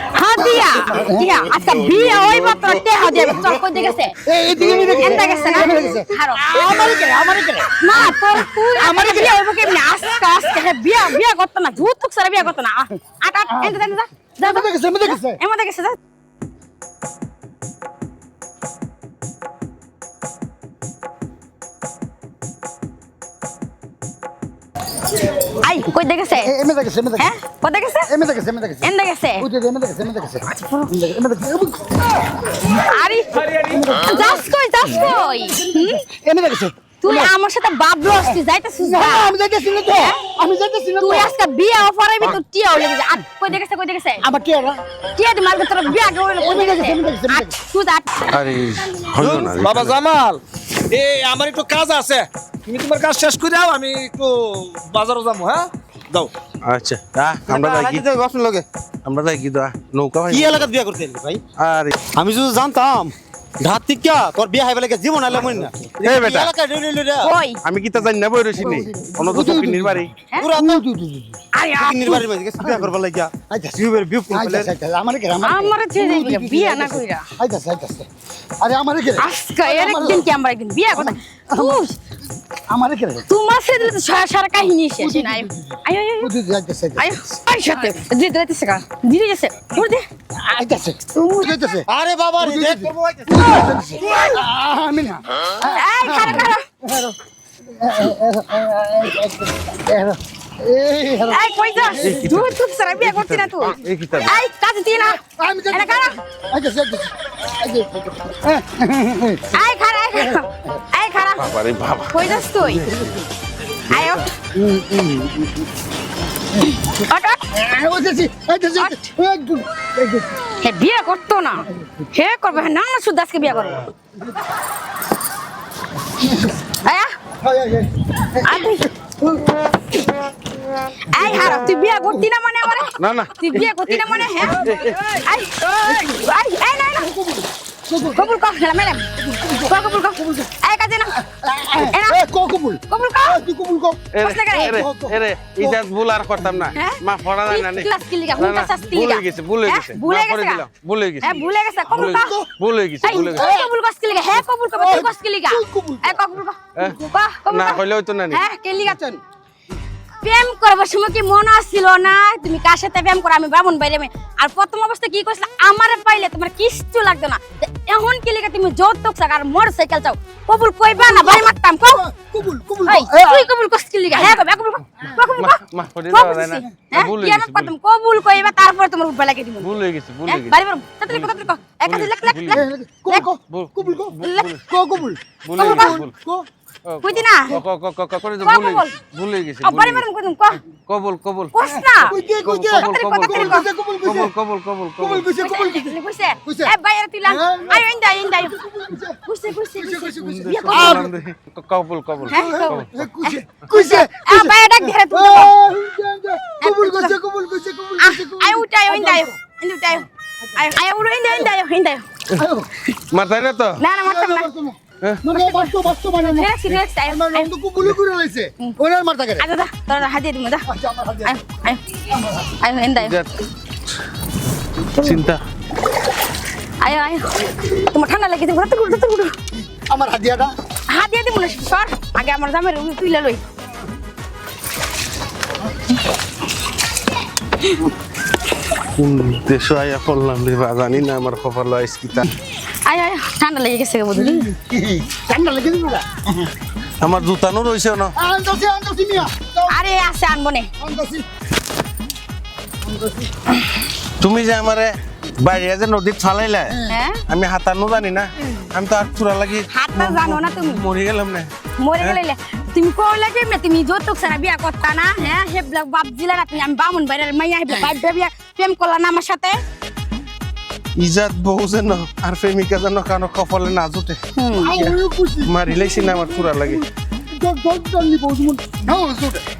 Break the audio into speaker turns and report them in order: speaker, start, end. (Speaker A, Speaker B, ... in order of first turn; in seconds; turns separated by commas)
Speaker A: 0.1-4.2, Speaker B: 0.4-1.3, Speaker B: 3.2-3.5, Speaker B: 4.2-8.2, Speaker A: 4.8-6.6, Speaker A: 7.8-16.0, Speaker B: 8.7-9.4, Speaker B: 13.5-13.8, Speaker B: 14.4-15.4, Speaker A: 25.5-26.5, Speaker B: 26.3-27.3, Speaker A: 27.2-28.1, Speaker B: 28.1-32.1, Speaker A: 28.8-29.5, Speaker A: 30.4-30.9, Speaker A: 32.7-33.3, Speaker C: 33.5-33.7, Speaker B: 33.6-37.3, Speaker A: 33.9-36.0, Speaker A: 37.0-39.4, Speaker B: 38.2-41.3, Speaker A: 41.0-44.2, Speaker B: 44.2-44.8, Speaker A: 45.1-48.4, Speaker B: 46.4-47.5, Speaker D: 48.3-50.0, Speaker C: 49.4-56.3, Speaker D: 56.6-58.0, Speaker E: 57.5-58.6, Speaker D: 59.0-60.7, Speaker E: 60.3-61.4, Speaker D: 61.6-62.0, Speaker E: 62.1-67.3, Speaker B: 65.4-65.9, Speaker D: 66.0-66.5, Speaker A: 67.2-67.6, Speaker D: 67.6-70.1, Speaker B: 68.6-71.4, Speaker E: 70.4-70.8, Speaker A: 71.5-72.2, Speaker E: 71.8-74.7, Speaker B: 72.6-72.9, Speaker B: 73.5-78.1, Speaker A: 75.4-77.2, Speaker B: 78.6-80.3, Speaker A: 79.2-82.0, Speaker B: 80.9-81.8, Speaker B: 82.6-83.2, Speaker A: 83.3-86.3, Speaker B: 85.0-87.1, Speaker A: 87.0-90.0, Speaker B: 90.4-97.2, Speaker A: 91.1-91.5, Speaker E: 91.9-93.6, Speaker A: 95.7-96.6, Speaker B: 97.8-102.4, Speaker A: 101.3-105.2, Speaker D: 102.0-104.3, Speaker B: 105.1-109.5, Speaker A: 105.7-106.2, Speaker A: 109.5-111.5, Speaker B: 110.1-110.8, Speaker D: 111.4-113.2, Speaker A: 112.1-112.9, Speaker B: 112.9-113.2, Speaker A: 113.9-114.3, Speaker D: 113.9-114.2, Speaker B: 114.5-115.6, Speaker A: 116.9-117.4, Speaker B: 117.5-120.4, Speaker A: 120.6-123.9, Speaker B: 126.2-126.5, Speaker A: 126.8-127.2, Speaker B: 127.4-129.1, Speaker A: 128.4-128.8, Speaker A: 131.1-137.1, Speaker B: 131.1-132.2, Speaker D: 133.0-135.2, Speaker B: 135.8-136.2, Speaker B: 136.9-138.3, Speaker A: 138.1-139.0, Speaker B: 139.2-140.5, Speaker A: 139.7-141.2, Speaker B: 141.2-145.8, Speaker A: 141.8-142.2, Speaker A: 142.9-143.4, Speaker D: 144.1-151.4, Speaker A: 144.2-144.8, Speaker A: 146.7-150.6, Speaker A: 151.2-152.3, Speaker B: 151.9-152.5, Speaker D: 152.0-153.4, Speaker A: 153.0-159.2, Speaker B: 153.1-153.7, Speaker B: 154.7-156.2, Speaker B: 156.8-157.1, Speaker D: 157.5-158.4, Speaker A: 160.2-172.0, Speaker B: 170.9-173.5, Speaker A: 172.8-179.7, Speaker D: 175.3-177.7, Speaker D: 179.6-180.6, Speaker A: 180.2-183.3, Speaker D: 181.1-182.6, Speaker B: 182.5-186.4, Speaker D: 183.5-184.6, Speaker A: 184.2-184.5, Speaker D: 185.4-186.1, Speaker A: 185.6-185.9, Speaker D: 186.8-190.1, Speaker A: 187.0-187.6, Speaker A: 188.4-188.9, Speaker A: 189.6-190.6, Speaker D: 190.9-191.6, Speaker A: 191.5-192.2, Speaker B: 191.7-194.3, Speaker D: 192.4-195.2, Speaker A: 192.7-193.7, Speaker B: 195.0-196.7, Speaker A: 195.4-198.6, Speaker B: 197.2-199.2, Speaker A: 199.2-201.1, Speaker B: 199.7-201.1, Speaker D: 200.2-203.0, Speaker A: 202.3-205.5, Speaker B: 202.3-209.3, Speaker A: 206.6-207.2, Speaker A: 208.0-212.1, Speaker B: 212.3-212.7, Speaker D: 213.1-213.8, Speaker A: 213.8-214.5, Speaker B: 214.0-219.4, Speaker A: 215.3-217.5, Speaker A: 219.4-220.7, Speaker B: 220.7-221.4, Speaker A: 221.2-221.8, Speaker A: 222.6-223.2, Speaker D: 222.9-223.4, Speaker D: 225.0-225.4, Speaker A: 226.8-229.3, Speaker B: 229.7-230.5, Speaker A: 230.9-233.4, Speaker D: 239.0-242.3, Speaker A: 242.8-244.5, Speaker B: 244.1-246.5, Speaker D: 247.0-248.1, Speaker B: 248.1-249.8, Speaker A: 249.7-250.7, Speaker B: 250.8-251.2, Speaker B: 252.8-253.3, Speaker D: 254.2-262.2, Speaker A: 256.9-257.2, Speaker A: 259.7-260.8, Speaker A: 261.8-269.6, Speaker B: 267.7-268.0, Speaker D: 270.9-274.2, Speaker A: 274.4-274.8, Speaker B: 274.5-279.4, Speaker D: 274.8-276.8